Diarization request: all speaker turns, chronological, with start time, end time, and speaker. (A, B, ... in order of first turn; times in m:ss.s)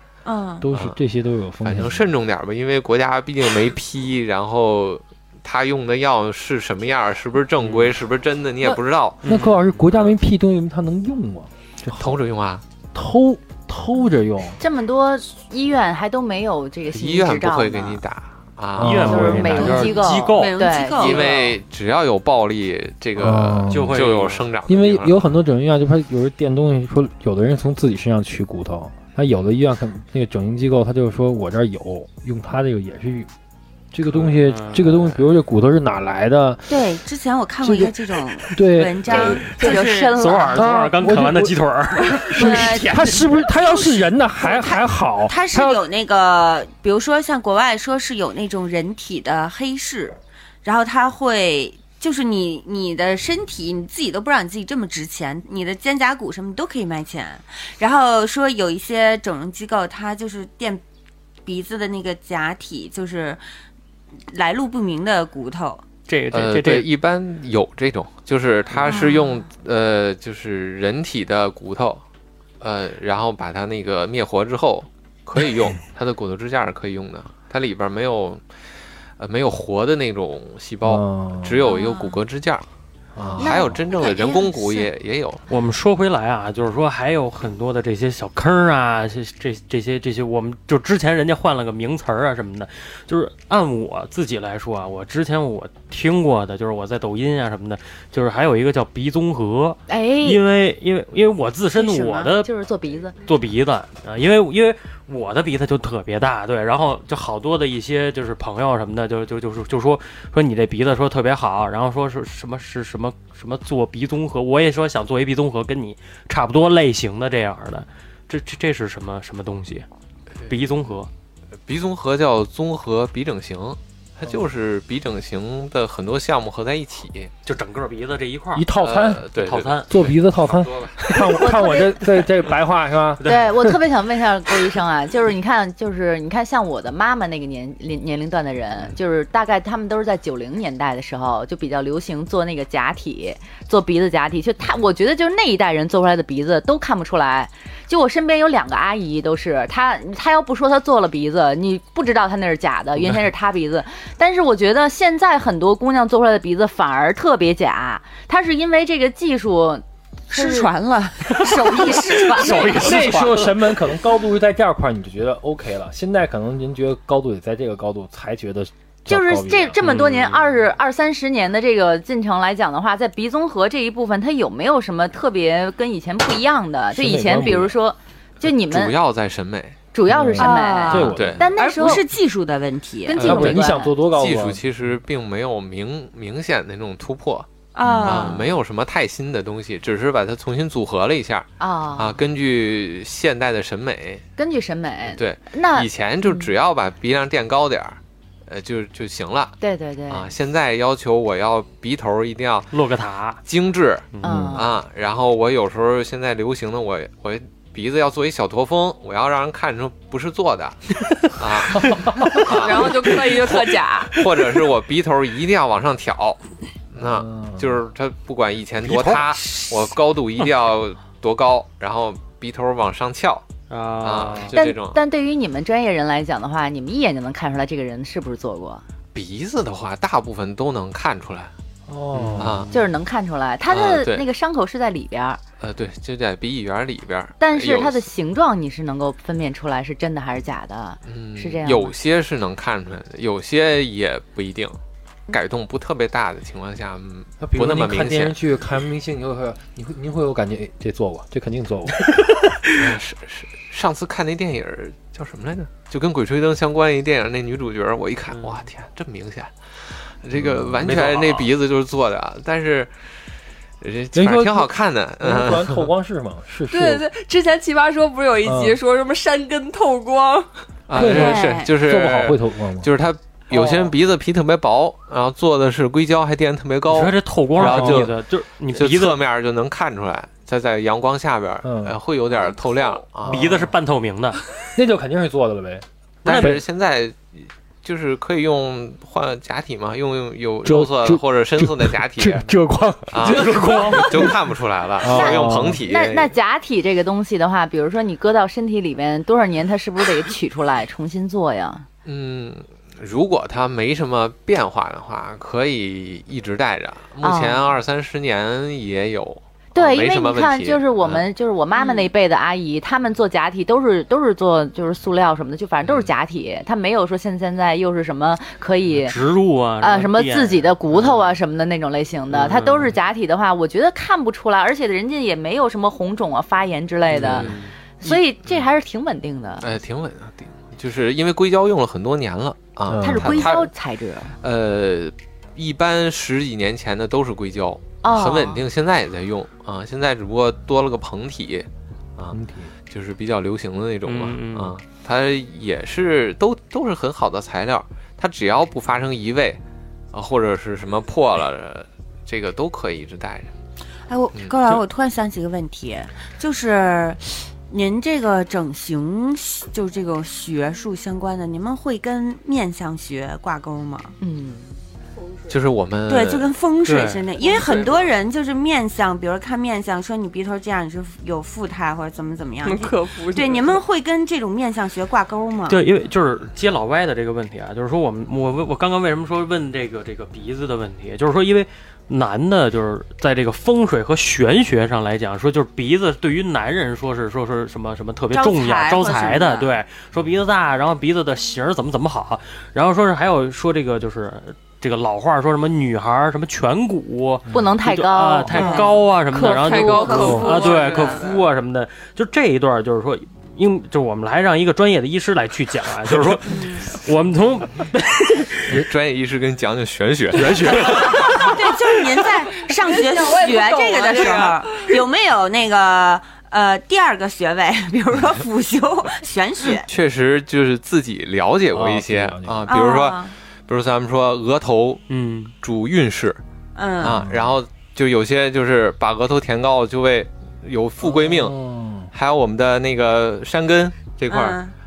0:00.2-0:00.6 A
0:00.6-0:02.1 B
0:00.7-0:01.0 C
0:01.6-0:09.2 C
0:07.6-0:07.9 D
0:08.6-0:12.2 B
0:09.2-0:09.6 D
0:11.9-0:12.6 C
0:12.9-0:14.6 B
0:14.6-0:18.0 E
0:16.9-0:19.5 C
0:18.8-0:20.0 B
0:18.8-0:20.6 D
0:19.0-0:21.3 E
0:19.6-0:21.5 A
0:21.0-0:25.2 C
0:23.2-0:24.1 B
0:23.7-0:24.5 D
0:24.7-0:33.3 B
0:33.9-0:36.6 B
0:34.1-0:35.0 D
0:36.7-0:40.6 A
0:37.6-0:37.9 B
0:38.5-0:39.4 B
0:39.1-0:43.1 D
0:39.5-0:40.6 E
0:40.5-0:41.6 B
0:42.3-0:45.8 B
0:42.3-1:00.8 A
1:01.4-1:03.4 A
1:04.3-1:05.8 A
1:06.1-1:06.9 D
1:06.3-1:12.0 C
1:08.8-1:09.4 A
1:12.6-1:18.4 C
1:19.2-1:22.6 C
1:20.8-1:21.6 B
1:21.6-1:22.2 A
1:23.2-1:23.7 B
1:23.4-1:25.4 C
1:23.4-1:24.4 E
1:23.4-1:24.8 A
1:25.5-1:42.5 D
1:39.9-1:40.4 E
1:41.8-1:42.3 A
1:42.2-1:43.1 E
1:43.2-1:59.8 D
2:00.5-2:01.1 D
2:01.6-2:07.3 C
2:07.4-2:08.7 D
2:08.5-2:09.3 B
2:08.8-2:11.0 C
2:09.4-2:10.1 D
2:09.9-2:13.7 B
2:11.3-2:12.1 E
2:13.2-2:40.7 E
2:40.3-2:43.1 A
2:41.4-2:42.7 E
2:41.4-2:43.7 D
2:42.8-2:49.8 B
2:49.1-2:59.0 E
2:49.8-2:50.6 D
2:56.9-2:57.8 B
2:58.4-2:59.8 C
2:59.9-3:02.0 E
3:00.1-3:01.5 B
3:00.4-3:03.3 A
3:01.0-3:01.5 C
3:03.0-3:03.9 E
3:03.2-3:04.6 B
3:03.2-3:07.5 C
3:07.7-3:08.5 A
3:08.0-3:14.2 C
3:11.6-3:12.2 E
3:14.4-3:16.5 E
3:15.1-3:19.6 C
3:19.6-3:20.3 E
3:20.1-3:22.7 C
3:22.7-3:23.4 D
3:23.4-3:36.4 C
3:24.1-3:24.6 D
3:24.2-3:24.7 E
3:31.8-3:32.4 B
3:32.5-3:34.2 F
3:36.9-3:43.4 C
3:37.0-3:37.8 B
3:38.8-3:39.9 D
3:43.7-3:44.5 D
3:44.0-3:45.0 C
3:44.5-3:48.8 E
3:49.1-3:51.5 C
3:51.9-3:52.6 B
3:52.1-3:52.6 D
3:52.4-3:52.8 C
3:52.7-3:55.4 E
3:53.7-3:54.3 C
3:55.6-3:58.0 C
3:57.4-4:01.9 E
4:01.0-4:04.8 C
4:05.3-4:08.4 C
4:07.4-4:12.1 B
4:12.8-4:22.9 C
4:20.4-4:20.8 B
4:20.8-4:21.5 D
4:23.8-4:25.9 C
4:24.1-4:27.0 B
4:26.7-4:30.5 F
4:28.4-4:28.8 B
4:30.9-4:38.2 C
4:30.9-4:32.9 B
4:30.9-4:31.7 A
4:36.9-4:39.2 D
4:37.6-4:38.1 B
4:38.7-4:43.6 C
4:41.6-4:42.0 B
4:43.2-4:43.7 B
4:43.3-4:44.4 D
4:44.7-4:46.6 B
4:46.2-4:46.6 D
4:46.2-4:52.5 C
4:50.6-4:54.4 B
4:53.1-4:56.3 C
4:53.2-4:54.3 D
4:55.0-4:55.8 B
4:55.1-5:01.8 E
5:02.0-5:11.2 C
5:07.2-5:07.7 E
5:09.7-5:19.2 E
5:11.7-5:12.1 A
5:18.9-5:21.2 D
5:19.8-5:29.7 E
5:22.3-5:23.0 D
5:27.1-5:27.7 D
5:27.1-5:28.6 C
5:29.6-5:33.7 C
5:32.8-5:33.6 B
5:33.0-5:34.4 E
5:34.4-5:42.4 C
5:38.0-5:38.6 E
5:42.3-5:42.7 B
5:42.9-5:49.6 C
5:44.0-5:44.7 D
5:50.1-5:53.5 C
5:54.1-6:04.1 A
5:54.4-5:54.8 C
6:04.2-6:04.7 E
6:05.5-6:06.5 C
6:06.1-6:15.8 A
6:06.8-6:07.2 D
6:07.4-6:08.1 F
6:12.6-6:13.8 F
6:15.7-6:48.8 D
6:28.3-6:29.7 A
6:37.5-6:37.8 B
6:37.5-6:38.9 E
6:38.5-6:38.9 A
6:38.7-6:41.3 F
6:39.6-6:41.3 A
6:46.5-6:46.9 A
6:48.8-6:51.1 C
6:50.3-6:51.6 D
6:50.9-6:59.9 A
6:52.7-6:55.0 F
6:59.8-7:05.0 C
7:01.7-7:02.7 B
7:02.7-7:03.3 A
7:05.1-7:05.5 D
7:05.6-7:06.4 C
7:06.7-7:07.2 A
7:07.0-7:11.6 C
7:07.0-7:07.6 B
7:11.0-7:12.1 B
7:12.1-7:14.6 C
7:14.3-7:14.7 A